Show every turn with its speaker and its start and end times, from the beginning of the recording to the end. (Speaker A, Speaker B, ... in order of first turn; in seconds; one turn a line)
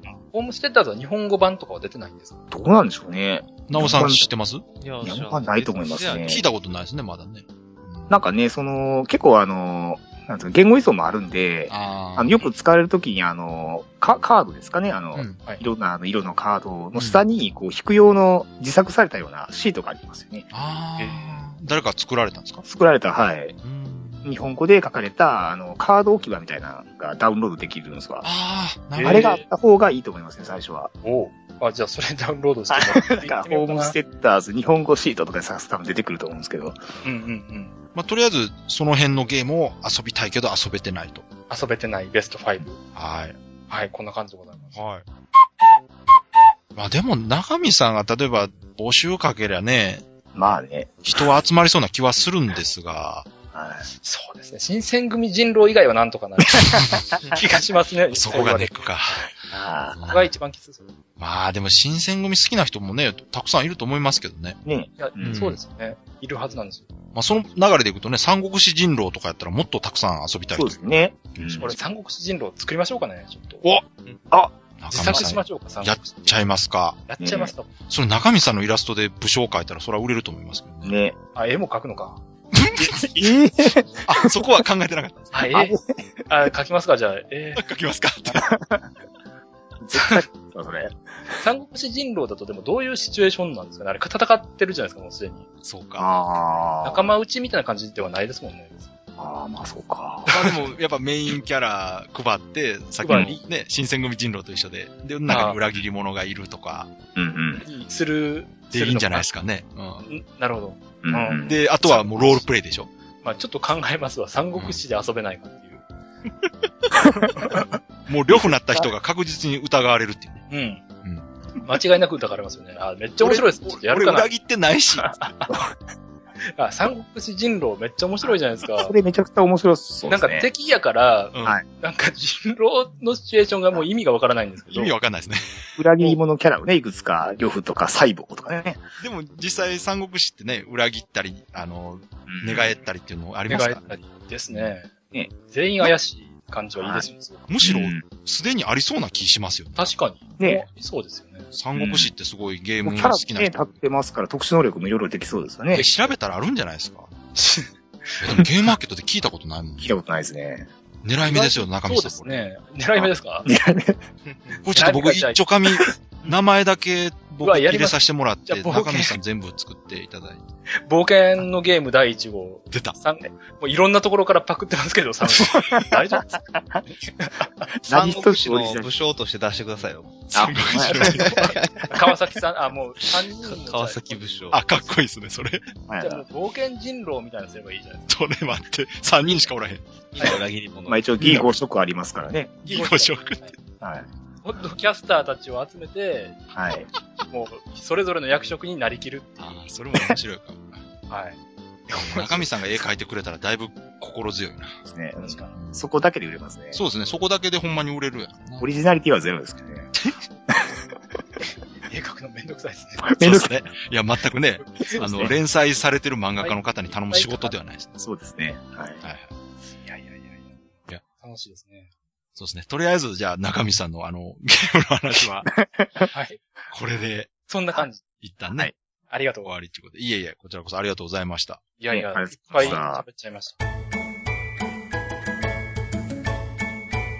Speaker A: 0.3-2.4
Speaker B: 2.5-4.3
Speaker C: 3.7-4.6
Speaker D: 4.8-6.4
Speaker B: 5.0-6.4
Speaker C: 6.2-8.2
Speaker B: 8.1-20.5
Speaker C: 11.7-12.4
Speaker C: 15.1-15.4
Speaker C: 16.9-17.2
Speaker C: 20.5-22.6
Speaker B: 22.6-23.6
Speaker C: 23.6-24.3
Speaker B: 24.2-28.2
Speaker C: 28.2-29.4
Speaker A: 28.9-29.4
Speaker B: 29.0-30.9
Speaker A: 31.0-34.0
Speaker B: 32.7-36.9
Speaker A: 37.0-37.7
Speaker C: 37.9-41.2
Speaker A: 41.5-42.8
Speaker C: 42.9-43.4
Speaker A: 43.7-44.8
Speaker C: 44.7-45.0
Speaker C: 46.7-50.0
Speaker B: 50.3-51.2
Speaker C: 51.0-53.3
Speaker B: 53.5-53.9
Speaker A: 54.0-58.8
Speaker C: 56.7-57.1
Speaker C: 58.1-59.3
Speaker B: 59.5-60.0
Speaker C: 59.9-60.3
Speaker A: 60.1-60.9
Speaker C: 61.2-64.6
Speaker B: 64.6-65.4
Speaker A: 65.0-66.9
Speaker C: 65.2-65.6
Speaker C: 67.1-70.8
Speaker B: 70.5-71.8
Speaker C: 71.4-71.7
Speaker A: 71.6-73.6
Speaker C: 74.8-77.0
Speaker A: 74.9-76.4
Speaker A: 77.1-77.7
Speaker B: 77.2-77.5
Speaker C: 77.9-81.0
Speaker B: 80.8-81.2
Speaker A: 81.3-82.2
Speaker C: 82.5-83.4
Speaker B: 82.8-84.6
Speaker C: 84.0-85.4
Speaker A: 85.3-85.8
Speaker B: 85.5-86.2
Speaker A: 86.3-87.6
Speaker C: 87.6-88.5
Speaker B: 88.3-88.9
Speaker B: 89.8-91.4
Speaker A: 89.9-90.2
Speaker A: 91.4-95.5
Speaker C: 95.6-96.1
Speaker B: 96.0-97.1
Speaker A: 96.8-98.9
Speaker B: 99.2-100.4
Speaker C: 100.3-106.9
Speaker A: 103.0-103.4
Speaker B: 103.0-103.3
Speaker A: 105.3-105.6
Speaker B: 107.1-107.6
Speaker A: 107.6-109.2
Speaker C: 108.7-110.0
Speaker A: 110.0-112.4
Speaker B: 111.0-111.6
Speaker C: 111.4-112.9
Speaker A: 113.2-115.8
Speaker C: 114.5-114.8
Speaker A: 117.2-117.7
Speaker C: 118.1-120.5
Speaker B: 118.3-118.9
Speaker A: 120.5-120.8
Speaker C: 121.0-121.3
Speaker A: 121.6-124.3
Speaker C: 123.2-125.2
Speaker A: 125.1-125.6
Speaker A: 126.5-128.9
Speaker B: 128.2-130.5
Speaker A: 130.1-134.9
Speaker C: 131.3-131.6
Speaker C: 134.7-135.8
Speaker B: 135.8-138.8
Speaker C: 139.0-143.9
Speaker B: 142.3-142.7
Speaker A: 143.5-144.9
Speaker A: 145.4-147.5
Speaker B: 146.8-147.1
Speaker C: 147.5-149.9
Speaker B: 147.6-148.0
Speaker A: 149.8-151.5
Speaker B: 150.4-150.7
Speaker C: 151.5-153.7
Speaker B: 151.8-152.1
Speaker B: 152.8-155.9
Speaker C: 155.7-157.1
Speaker A: 157.3-158.4
Speaker C: 158.2-159.9
Speaker B: 159.8-160.7
Speaker C: 161.0-162.4
Speaker A: 161.2-163.5
Speaker B: 163.0-164.0
Speaker C: 164.6-170.5
Speaker A: 164.7-165.4
Speaker A: 167.4-169.2
Speaker A: 170.8-177.7
Speaker B: 177.8-178.9
Speaker D: 177.9-180.3
Speaker C: 180.3-181.5
Speaker B: 180.3-181.3
Speaker A: 180.9-184.2
Speaker D: 181.0-182.0
Speaker D: 183.4-184.6
Speaker C: 184.5-185.6
Speaker B: 185.9-186.2
Speaker A: 186.0-188.1
Speaker C: 188.1-189.8
Speaker D: 190.1-191.0
Speaker B: 190.9-192.6
Speaker C: 191.2-191.4
Speaker C: 192.6-193.4
Speaker A: 192.7-193.5
Speaker B: 193.8-194.1
Speaker A: 194.4-196.4
Speaker B: 196.5-196.9
Speaker A: 197.3-199.5
Speaker C: 199.4-200.8
Speaker A: 201.1-202.5
Speaker C: 201.9-204.8
Speaker B: 204.8-206.8
Speaker A: 205.2-205.5
Speaker C: 205.5-205.8
Speaker C: 206.7-208.7
Speaker B: 208.6-209.9
Speaker B: 210.5-210.8
Speaker A: 211.9-213.1
Speaker B: 213.0-213.6
Speaker C: 213.2-218.0
Speaker A: 214.6-215.3
Speaker B: 215.0-215.4
Speaker A: 216.4-217.6
Speaker B: 218.0-219.0
Speaker C: 219.0-219.3
Speaker A: 219.8-221.9
Speaker C: 222.4-225.5
Speaker B: 225.2-226.1
Speaker A: 226.1-226.4
Speaker C: 226.7-227.3
Speaker A: 227.5-228.0
Speaker C: 228.2-228.7
Speaker A: 229.1-229.5
Speaker C: 229.4-231.6
Speaker A: 231.8-233.6
Speaker B: 231.9-233.0